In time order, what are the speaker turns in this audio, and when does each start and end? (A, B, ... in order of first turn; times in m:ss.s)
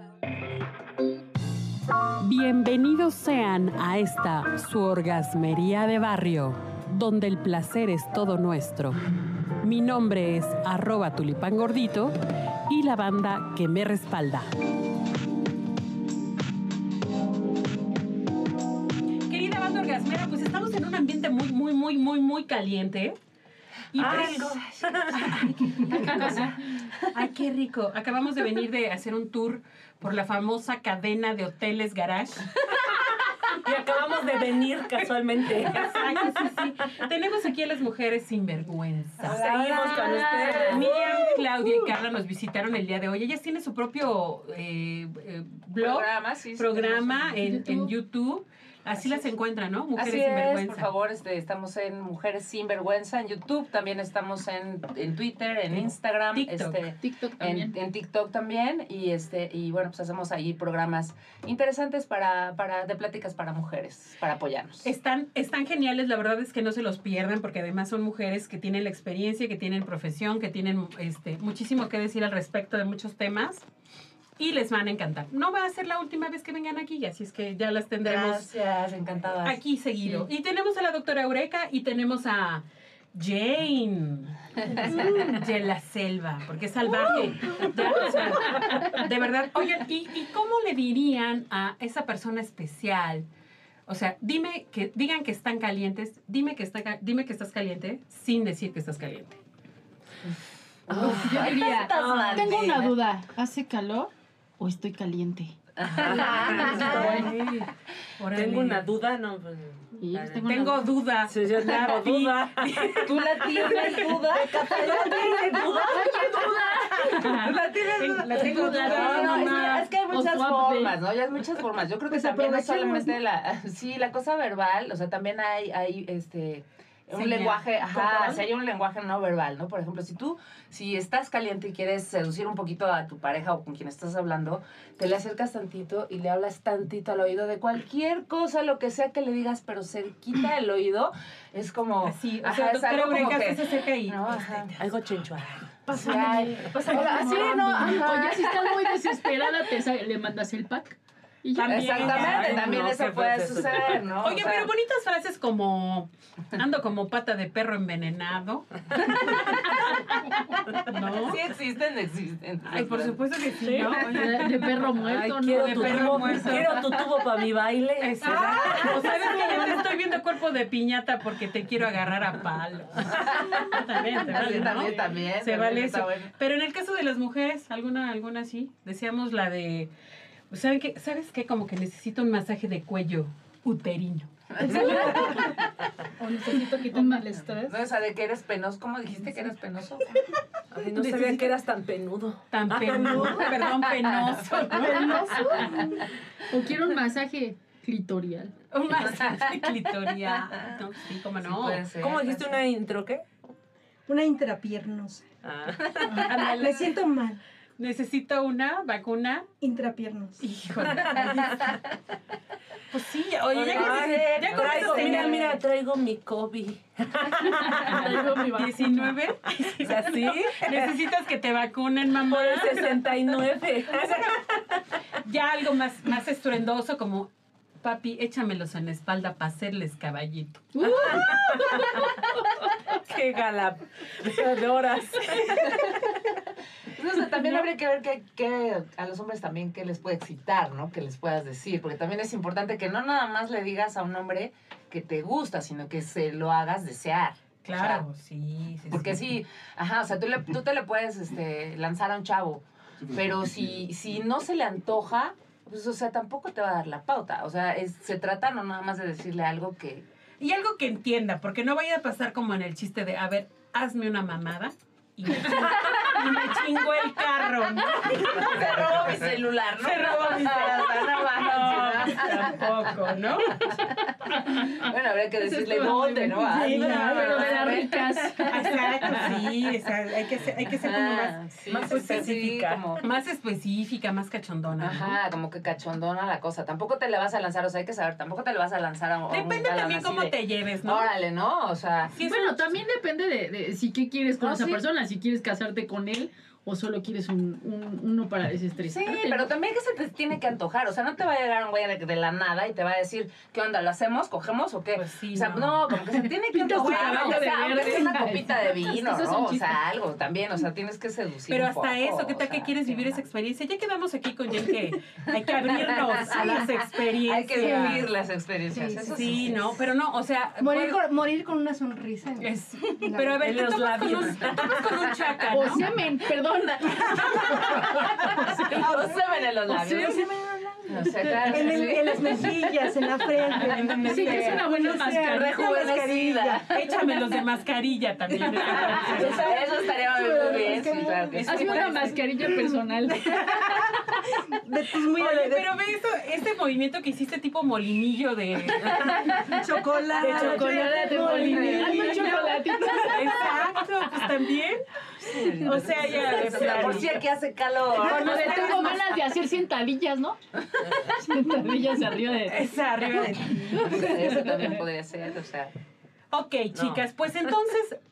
0:02.2-0:09.0 A
0:09.6-0:12.1 A
0:12.7-0:14.5 A
0:19.3-0:23.2 A
0:23.9-0:26.5 A
0:24.0-0:25.2 B
0:24.0-0:24.5 C
0:25.9-0:26.5 C
0:27.1-0:32.5 A
0:33.5-0:36.2 B
0:35.7-0:50.9 A
0:39.2-0:40.9 C
0:39.2-0:41.0 B
0:40.2-0:40.8 D
0:45.8-0:47.2 C
0:47.4-0:47.9 D
0:50.0-1:04.9 C
0:55.7-0:56.9 A
0:57.0-0:57.8 D
1:04.8-1:13.6 A
1:14.4-1:18.5 A
1:18.0-1:20.2 C
1:19.4-1:33.3 A
1:33.9-1:39.4 A
1:40.9-1:42.9 C
1:40.9-1:47.3 D
1:40.9-1:42.6 B
1:45.8-1:47.3 C
1:45.9-1:47.4 B
1:46.4-1:48.8 A
1:48.3-1:50.6 B
1:50.0-1:50.8 D
1:50.4-1:53.1 A
1:51.2-1:56.2 B
1:53.0-2:24.8 C
1:53.7-1:54.1 A
1:55.8-1:57.6 D
1:57.9-1:59.9 A
1:58.3-2:01.0 D
1:58.8-1:59.4 B
2:02.1-2:03.2 D
2:07.1-2:07.6 A
2:07.9-2:08.4 D
2:22.0-2:24.8 A
2:24.8-2:25.8 B
2:25.9-2:28.1 E
2:25.9-2:28.8 C
2:26.7-2:32.1 D
2:31.5-2:32.9 A
2:31.6-2:34.7 C
2:31.9-2:34.0 B
2:34.2-2:39.8 A
2:39.3-2:39.6 B
2:40.8-2:41.4 A
2:41.1-2:43.2 C
2:42.6-2:44.9 A
2:43.6-2:44.2 B
2:44.0-2:46.6 D
2:44.9-2:49.3 B
2:45.5-2:46.9 A
2:48.0-2:59.9 A
2:48.2-2:49.2 C
2:54.2-2:56.3 C
3:00.5-3:04.3 A
3:04.5-3:05.5 C
3:04.7-3:05.6 E
3:04.8-3:05.3 B
3:06.2-3:07.7 E
3:06.3-3:07.6 D
3:07.6-3:10.2 C
3:10.7-3:13.7 B
3:10.9-3:11.5 A
3:12.5-3:15.2 A
3:14.7-3:16.1 E
3:14.8-3:15.8 D
3:16.4-3:18.5 D
3:18.7-3:21.9 A
3:21.4-3:22.4 C
3:22.0-3:23.2 B
3:24.1-3:25.2 E
3:25.4-3:26.3 B
3:26.0-3:27.4 E
3:26.2-3:26.9 A
3:27.8-3:29.4 A
3:29.6-3:30.4 E
3:30.4-3:31.6 A
3:31.0-3:31.5 B
3:32.9-3:35.6 A
3:33.5-3:38.7 B
3:33.6-3:35.5 C
3:37.4-3:39.0 D
3:38.4-3:43.1 A
3:39.8-3:41.0 B
3:42.3-3:44.8 B
3:45.2-3:47.3 A
3:47.8-3:50.8 A
3:50.8-3:52.8 D
3:51.1-3:52.0 B
3:53.0-3:55.8 B
3:55.5-3:55.9 C
3:57.0-4:08.0 C
4:07.6-4:09.2 A
4:08.9-4:20.0 C
4:20.4-4:29.2 A
4:28.1-4:32.7 C
4:29.8-4:33.7 A
4:33.6-4:34.0 C
4:34.2-4:39.4 D
4:34.7-4:39.2 C
4:36.4-4:37.4 E
4:36.6-4:37.6 A
4:38.4-4:42.4 A
4:40.7-4:43.0 C
4:41.7-4:43.0 B
4:43.0-4:45.2 A
4:44.8-4:52.1 C
4:49.3-4:51.1 A
4:52.1-4:52.8 A
4:52.2-4:59.5 D
4:54.4-4:54.8 C
4:58.8-5:13.2 C
5:04.9-5:05.8 A
5:06.5-5:09.8 D
5:06.6-5:07.9 A
5:11.5-5:18.1 A
5:15.8-5:19.6 C
5:17.5-5:18.0 E
5:18.7-5:19.4 E
5:19.0-5:21.0 A
5:20.6-5:23.4 E
5:22.4-5:25.8 A
5:23.4-5:24.9 B
5:25.5-5:28.9 D
5:27.1-5:30.2 C
5:28.2-5:36.6 E
5:29.7-5:30.3 D
5:30.9-5:32.5 C
5:31.4-5:31.8 D
5:33.6-5:36.0 D
5:33.6-5:34.7 A
5:35.0-5:36.9 C
5:36.7-5:39.5 A
5:38.5-5:45.7 E
5:38.7-5:39.2 D
5:38.8-5:42.0 C
5:41.4-5:44.1 D
5:45.1-5:50.6 A
5:48.8-5:49.2 B
5:49.2-5:49.6 D
5:49.2-5:53.3 E
5:50.1-5:53.8 D
5:50.2-5:51.4 B
5:51.4-5:52.2 C
5:53.0-5:54.8 A
5:55.2-5:59.0 C
5:55.6-5:57.2 A
5:56.2-5:56.9 D
5:57.9-6:04.6 D
5:58.0-5:59.2 A
6:02.5-6:04.6 A
6:03.8-6:05.7 C
6:06.3-6:08.0 A
6:06.7-6:07.0 B